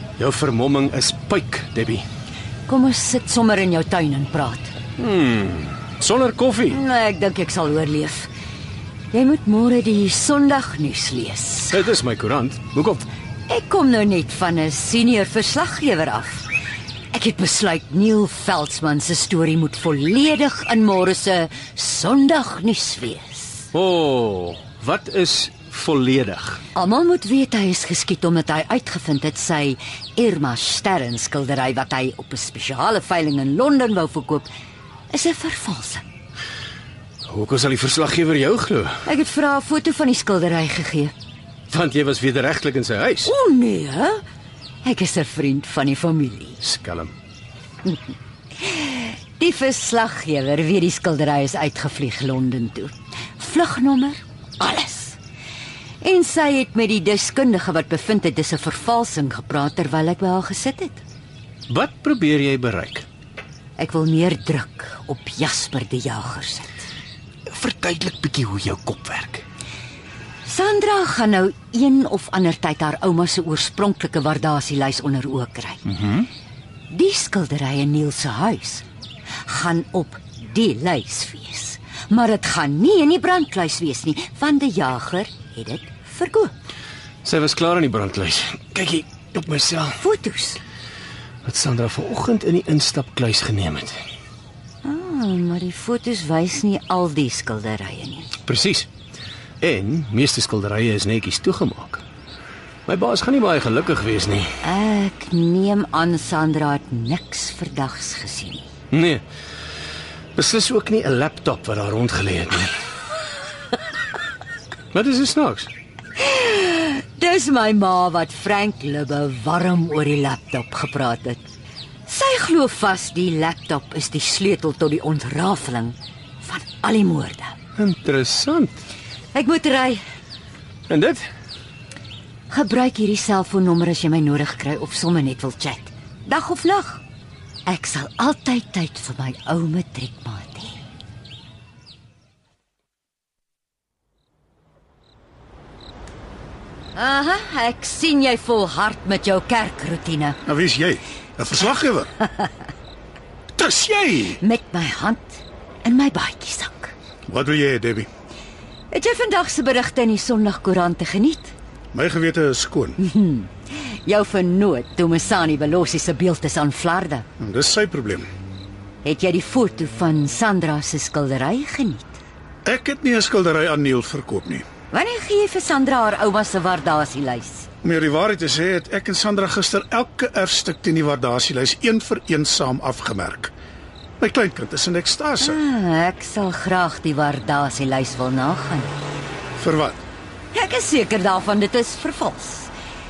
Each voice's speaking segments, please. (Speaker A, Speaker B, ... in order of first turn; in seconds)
Speaker A: 0.2-2.0, 5.0-6.8, 11.7-13.1, 23.7-26.6, 37.2-39.0, 41.7-43.3, 46.6-47.1, 61.7-63.0, 67.5-69.4, 75.9-76.2, 87.2-90.0, 91.4-94.0, 98.5-98.9, 99.6-102.0, 102.9-104.5, 108.9-109.2, 110.3-112.7, 114.9-115.7, 127.8-128.8, 130.9-131.2
Speaker B: 2.7-4.7, 6.7-8.3, 9.1-11.8, 13.5-16.5, 17.1-23.7, 26.7-34.5, 35.1-36.0, 39.0-41.1, 43.2-44.2, 44.8-46.6, 48.6-55.2, 56.0-61.0, 63.8-66.7, 70.5-75.8, 76.9-78.8, 79.4-86.5, 90.0-90.6, 94.8-98.3, 104.6-108.7, 116.2-121.4, 122.1-127.5, 129.3-130.0, 132.5-137.0, 137.7-140.7, 146.9-150.4, 154.4-156.9, 158.9-161.5, 163.0-167.2, 169.0-172.2, 174.9-177.7, 185.4-188.9, 190.5-192.7
Speaker C: 150.5-152.2, 153.6-154.4, 157.3-158.1, 161.9-163.0, 167.4-168.3, 172.7-174.6, 177.8-183.5, 184.2-185.6, 189.6-190.0